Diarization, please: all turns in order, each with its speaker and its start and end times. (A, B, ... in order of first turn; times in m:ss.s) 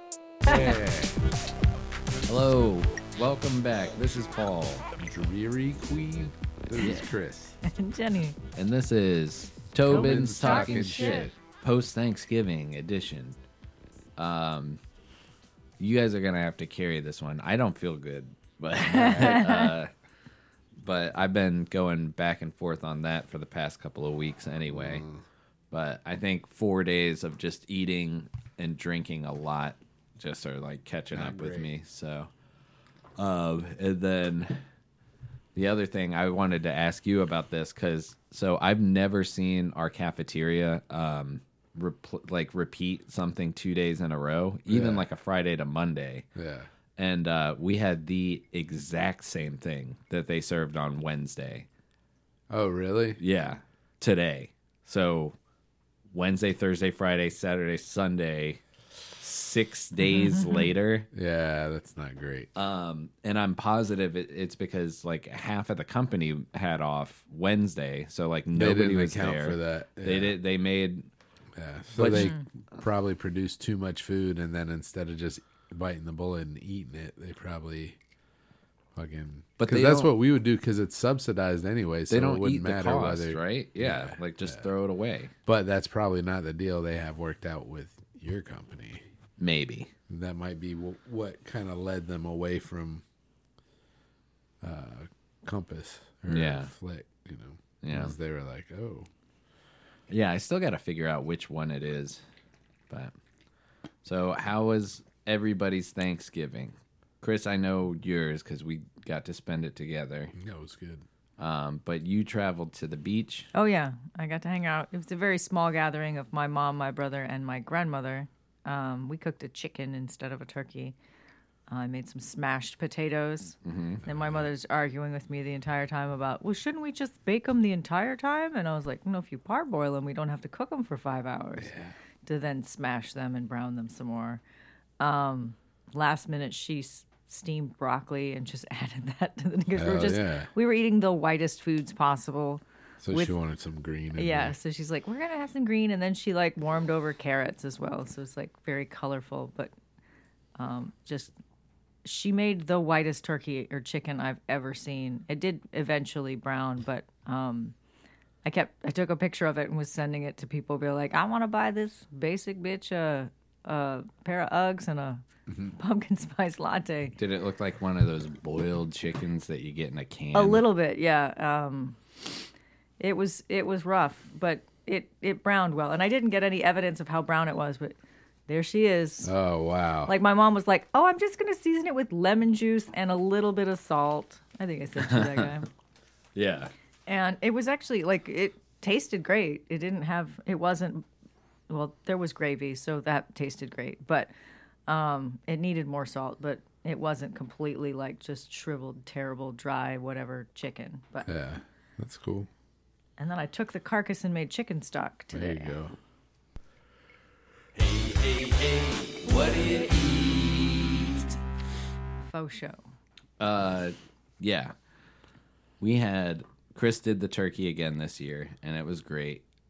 0:00.4-0:01.2 A
0:02.3-0:04.8 B
0:05.0-0:07.6 A
0:06.8-0:07.0 C
0:07.6-0:08.4 C
0:08.6-0:13.4 B
0:09.8-0:11.3 A
0:09.9-0:11.3 C
0:14.2-0:14.8 B
0:15.8-0:19.9 B
0:18.9-0:19.7 C
0:20.8-0:25.0 B
0:24.7-0:25.2 A
0:25.7-0:32.3 B
0:31.1-0:31.7 A
0:33.2-0:34.6 B
0:35.5-0:46.2 B
0:44.7-0:45.0 A
0:46.4-0:46.7 A
0:47.0-0:51.6 B
0:52.5-0:53.2 A
0:53.2-0:55.4 B
0:56.1-0:58.6 B
0:59.2-1:01.1 B
1:01.1-1:02.5 A
1:02.6-1:11.1 B
1:08.5-1:10.3 A
1:11.6-1:18.0 A
1:11.9-1:12.3 B
1:12.1-1:12.4 C
1:19.0-1:24.6 A
1:19.6-1:20.1 B
1:22.1-1:25.3 B
1:25.5-1:29.0 A
1:29.4-1:29.9 B
1:30.1-1:33.0 A
1:34.6-1:39.1 A
1:36.3-1:36.7 B
1:37.8-1:38.1 B
1:40.1-1:42.2 B
1:44.0-1:50.3 B
1:50.3-1:51.0 A
1:51.4-1:53.5 B
1:53.5-2:00.9 C
2:01.7-2:11.7 C
2:03.6-2:04.0 B
2:04.0-2:04.4 A
2:12.2-2:14.4 C
2:15.0-2:23.3 C
2:19.8-2:20.5 A
2:23.0-2:24.5 A
2:24.1-2:29.7 C
2:30.6-2:31.3 C
2:32.0-2:37.7 C
2:38.4-2:47.2 C
2:47.2-2:50.6 B
2:50.3-2:52.0 C
2:53.0-2:58.0 C
2:58.5-2:59.3 C
2:59.2-3:00.1 A
3:00.0-3:05.7 C
3:05.0-3:05.5 B
3:06.3-3:06.7 B
3:07.1-3:11.0 C
3:11.7-3:14.3 C
3:14.9-3:21.3 C
3:21.2-3:22.5 A
3:23.2-3:25.7 C
3:25.3-3:25.9 A
3:27.8-3:31.4 B
3:32.2-3:32.8 C
3:33.4-3:34.7 B
3:35.8-3:39.4 B